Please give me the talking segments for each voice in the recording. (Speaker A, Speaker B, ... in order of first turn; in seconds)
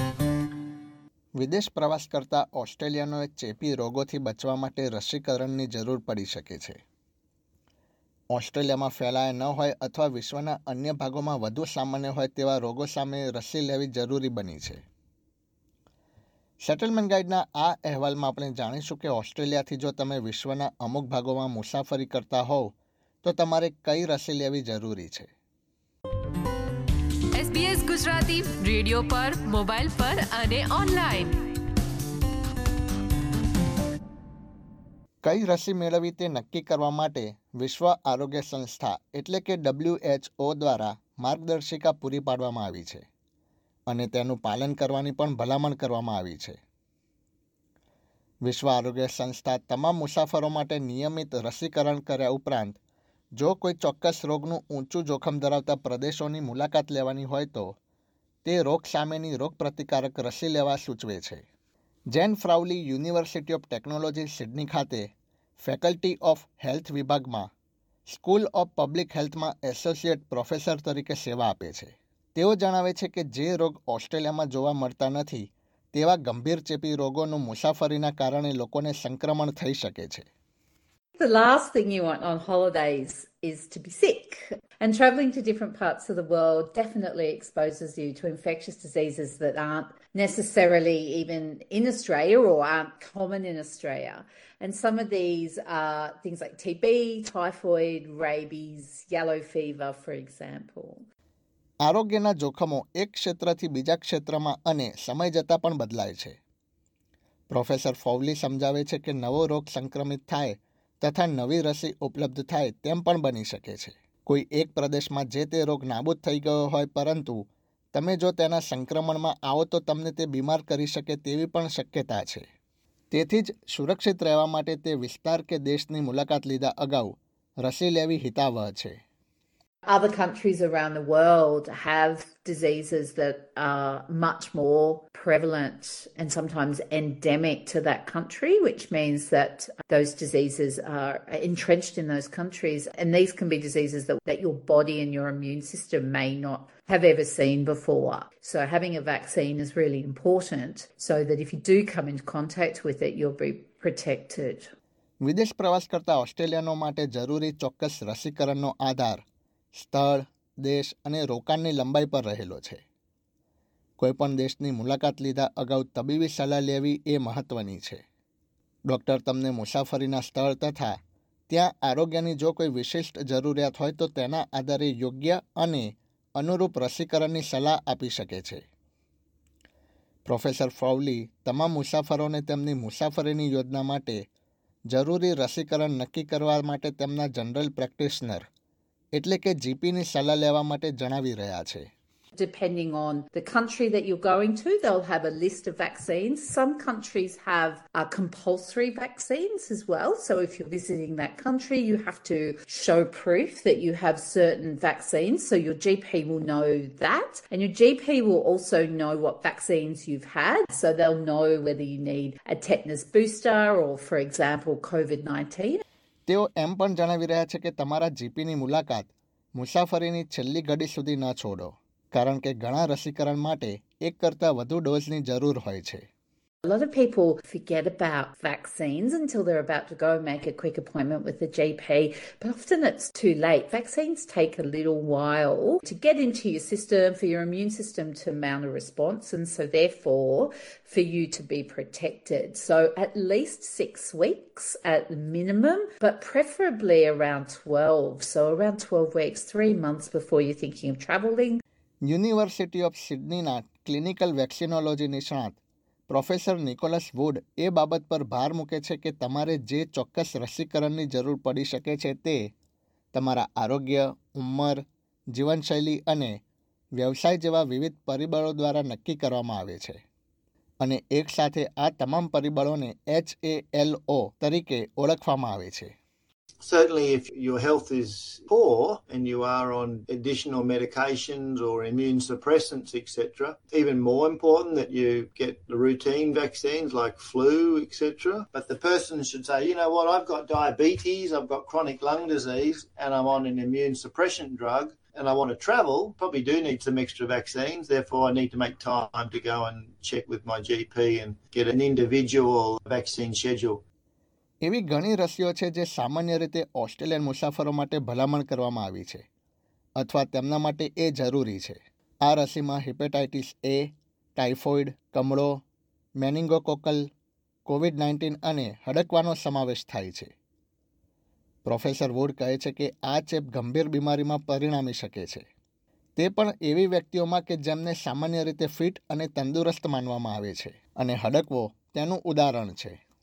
Speaker A: 1.4-6.8, 8.3-14.8, 16.6-22.7, 23.2-25.3, 35.2-43.0, 43.9-46.6, 48.5-52.8, 53.4-57.8, 58.5-61.4, 62.1-65.1, 65.6-67.5, 68.1-80.3, 101.8-106.4, 107.5-117.4, 117.9-122.4, 123.1-129.0, 155.2-159.2, 159.8-162.8, 164.0-168.0, 168.9-171.0, 171.5-178.6, 180.3-184.2, 184.9-188.4, 189.1-191.9, 216.3-226.1, 252.1-255.6, 256.1-262.4, 263.1-264.8, 265.3-266.4, 267.0-270.0, 270.8-275.9, 304.6-309.2, 310.0-315.6, 316.2-317.0, 317.7-320.3, 321.6-325.4, 326.2-333.0
Speaker B: 27.4-31.4
Speaker C: 81.2-101.1, 129.9-154.7, 192.3-215.8, 226.7-251.6
Speaker D: 276.6-303.8